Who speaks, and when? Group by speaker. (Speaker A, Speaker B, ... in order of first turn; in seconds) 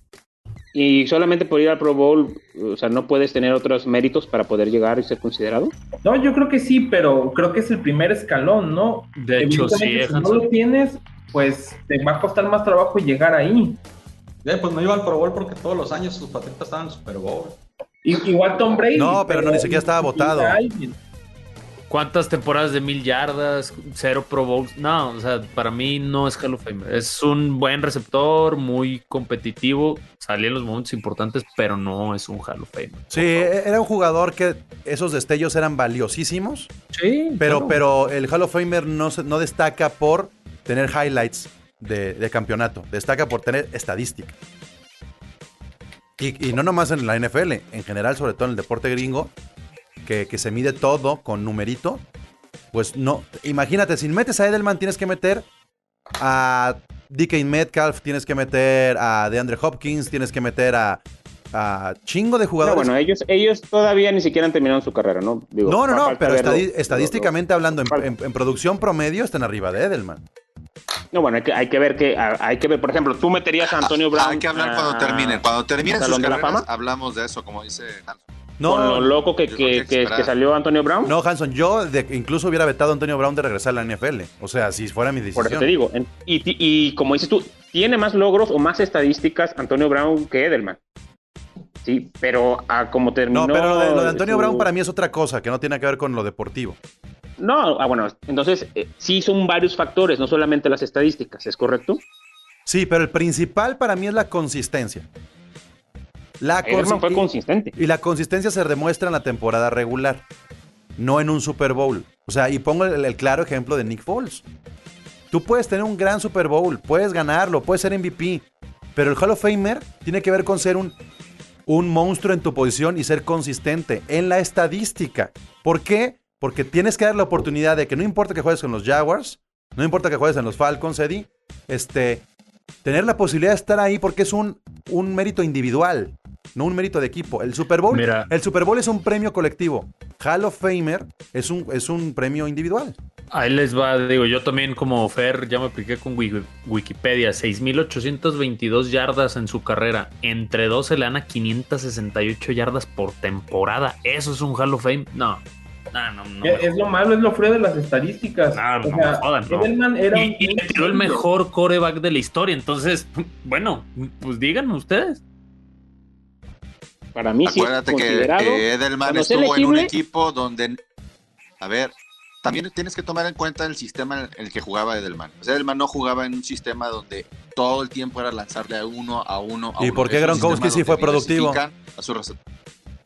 Speaker A: 0.7-5.8, 62.6-68.1, 71.1-76.7, 78.6-81.1, 85.4-90.8, 91.8-94.7, 97.4-102.0, 106.7-107.7, 167.2-169.9
Speaker B: 6.0-13.8, 18.0-21.0, 156.4-161.3
Speaker C: 9.2-10.5, 21.9-33.5, 36.9-37.8, 137.9-138.3, 143.3-156.9, 158.5-165.2, 180.3-180.6
Speaker D: 14.4-17.6
Speaker E: 18.9-20.6, 33.1-36.7, 37.4-44.3, 46.2-49.3, 50.0-52.0, 52.7-55.5, 56.2-61.0, 61.5-62.9, 65.7-70.2, 78.6-79.1, 81.1-85.7, 93.3-96.8, 102.7-105.1, 106.4-110.2, 111.0-114.4, 115.3-118.4, 119.0-121.0, 121.7-132.2, 132.8-143.0, 179.8-181.6
Speaker F: 73.8-78.2, 79.5-80.3, 167.4-170.8, 171.6-182.4